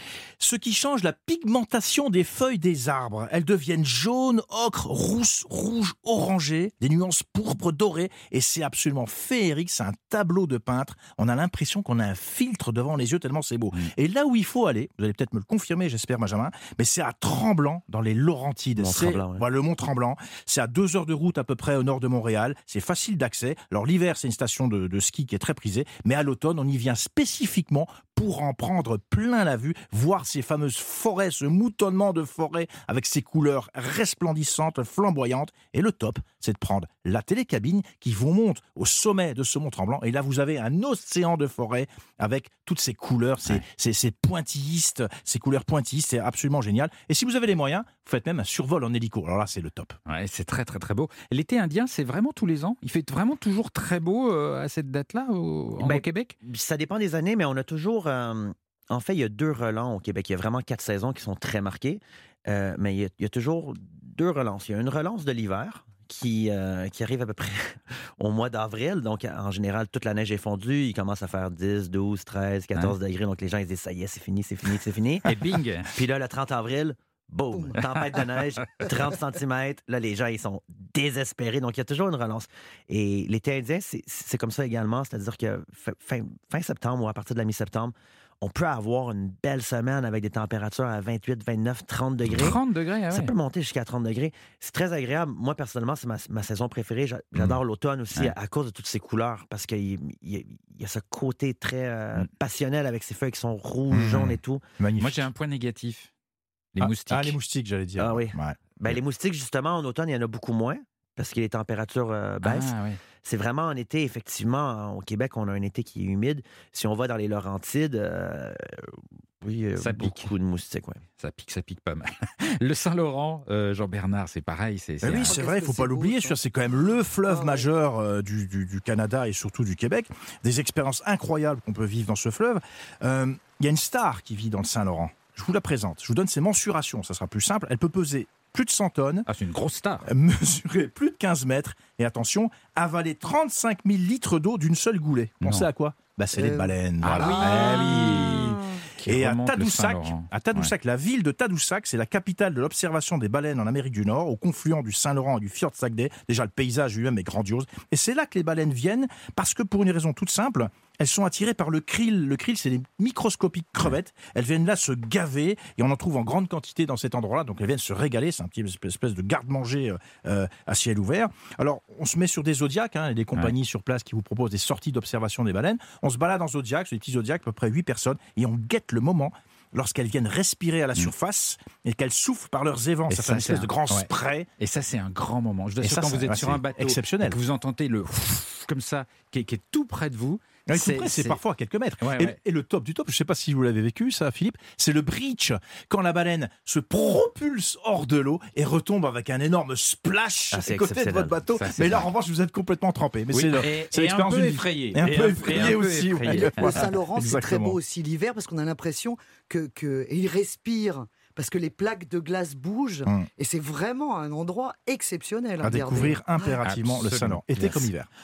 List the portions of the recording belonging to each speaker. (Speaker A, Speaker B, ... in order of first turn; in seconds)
Speaker A: 0.4-50.0, 103.9-105.3, 106.8-109.0, 125.0-139.3, 140.1-184.5, 185.8-187.4, 190.7-207.8, 215.6-218.1
Speaker B: 18.8-19.4, 55.8-75.4, 75.9-92.6, 93.1-104.6, 108.0-121.0, 200.5-201.4
Speaker C: 50.1-56.3, 75.2-75.9, 92.3-93.3, 105.0-106.1, 106.7-107.4, 112.4-113.0, 119.8-120.3, 121.2-125.3, 139.3-140.1, 145.4-145.7, 147.0-150.7, 183.1-191.4, 192.0-192.4, 201.5-202.1, 203.3-206.9, 216.6-217.9
Speaker D: 77.5-77.8, 125.1-126.4, 127.3-127.7, 146.4-146.7, 206.3-216.2